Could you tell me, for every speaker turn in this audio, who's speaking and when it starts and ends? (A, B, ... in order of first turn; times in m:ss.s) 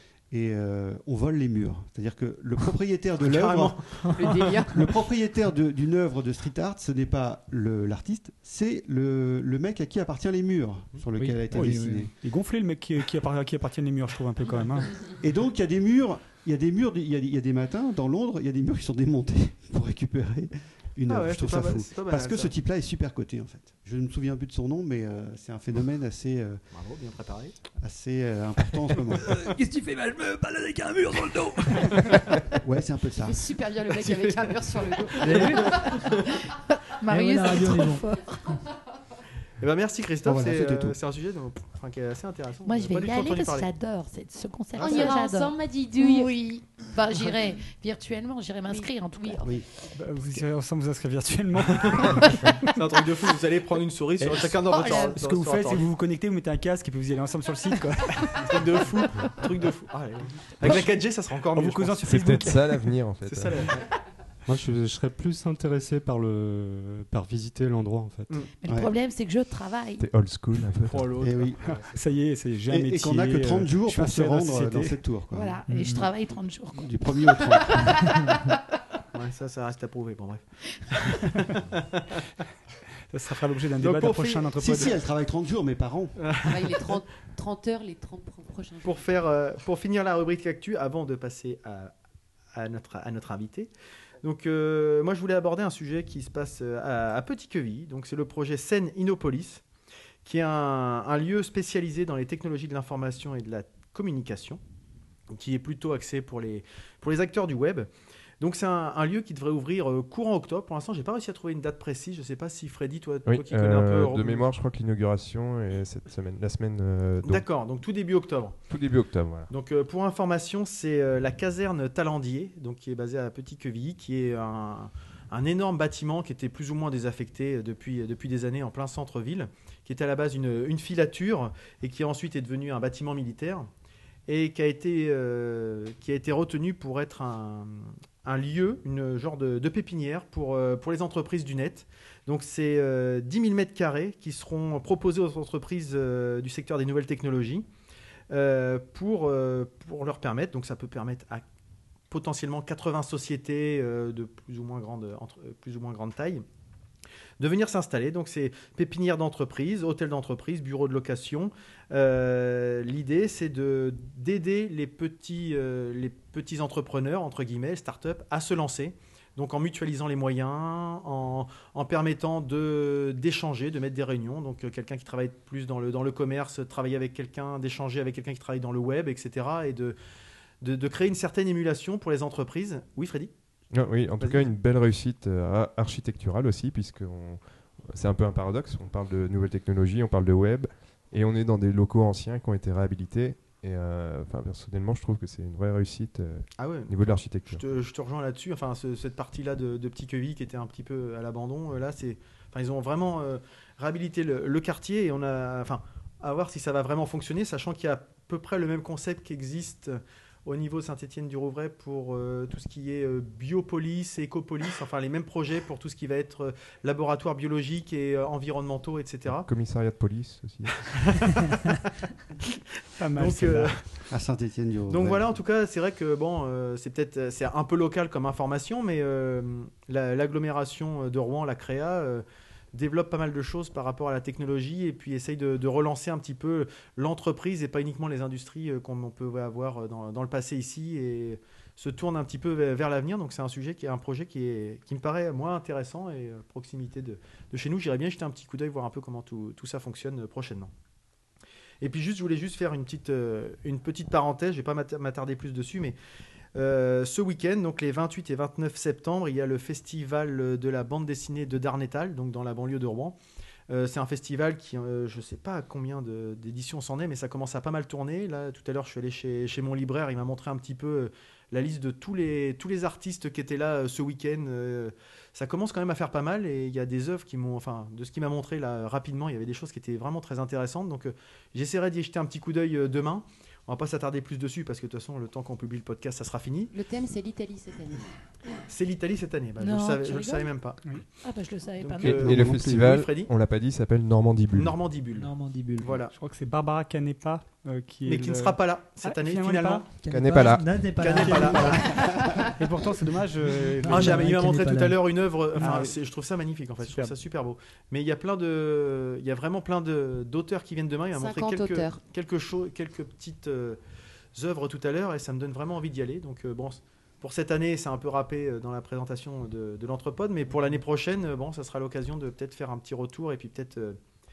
0:00.3-0:03.8 A
0:03.2-0:04.6 B
0:04.2-0:04.9 C
0:04.7-0:12.1 A
0:11.2-0:15.0 D
0:11.6-0:12.0 E
0:15.2-0:26.6 A
0:21.1-0:22.5 B
0:26.7-0:27.6 B
0:27.8-0:29.3 A
0:29.2-0:32.4 E
0:32.6-0:33.4 A
0:33.2-0:36.0 C
0:33.9-0:35.8 B
0:35.2-0:36.1 E
0:36.4-0:38.6 F
0:37.1-0:38.0 E
0:39.6-0:43.7 B
0:40.2-0:41.0 A
0:42.6-0:49.4 F
0:44.7-0:45.1 B
0:44.8-0:46.3 C
0:48.7-0:49.6 C
0:49.9-0:52.7 D
0:51.8-0:55.9 B
0:54.3-0:58.8 D
0:54.8-0:55.1 F
0:58.4-1:02.7 B
1:00.6-1:00.9 G
1:00.6-1:00.9 D
1:01.5-1:02.6 D
1:02.0-1:03.6 G
1:03.2-1:03.8 B
1:04.4-1:08.3 H
1:08.6-1:10.0 F
1:08.6-1:08.9 A
1:10.0-1:11.2 G
1:10.8-1:11.8 B
1:11.2-1:11.6 A
1:11.9-1:15.0 D
1:12.7-1:15.6 A
1:15.3-1:18.4 F
1:15.7-1:16.1 E
1:16.7-1:18.0 A
1:19.1-1:22.2 B
1:23.1-1:25.0 D
1:23.8-1:24.9 B
1:24.6-1:26.2 A
1:26.2-1:27.0 B
1:26.4-1:29.1 C
1:28.8-1:31.9 B
1:32.5-1:33.7 B
1:34.2-1:39.6 B
1:40.2-1:44.6 B
1:45.3-1:47.9 B
1:48.4-1:54.4 B
1:53.2-1:57.4 G
1:57.2-1:58.7 B
1:58.7-1:59.5 G
1:59.5-2:13.7 B
2:14.3-2:27.6 B
2:28.3-2:31.4 B
2:32.1-2:36.4 B
2:37.4-3:00.0 B
3:00.6-3:03.3 B
3:03.7-3:17.6 G
3:04.2-3:04.5 B
3:16.6-3:39.5 B
3:39.5-3:40.8 G
3:40.8-3:41.3 B
3:43.0-3:43.8 D
3:43.1-3:44.0 B
3:44.1-3:45.3 A
3:44.9-4:10.7 B
4:11.8-4:16.0 B
4:16.5-4:23.2 B
4:23.7-4:46.7 B
4:46.7-4:48.1 C
4:48.7-4:51.0 B
4:49.6-4:50.5 F
4:51.2-4:52.2 F
4:51.8-4:53.3 B
4:52.0-4:54.8 G
4:52.1-4:53.0 A
4:54.5-4:56.1 B
4:55.1-4:56.0 E
4:56.1-4:59.9 D
4:58.0-4:59.9 B
5:00.0-5:02.5 E
5:00.1-5:00.8 G
5:01.0-5:02.4 B
5:01.1-5:01.8 D
5:02.6-5:04.4 D
5:03.8-5:05.0 E
5:03.9-5:13.8 B
5:05.6-5:06.0 D
5:06.8-5:07.1 D
5:11.1-5:12.0 C
5:14.3-5:24.0 B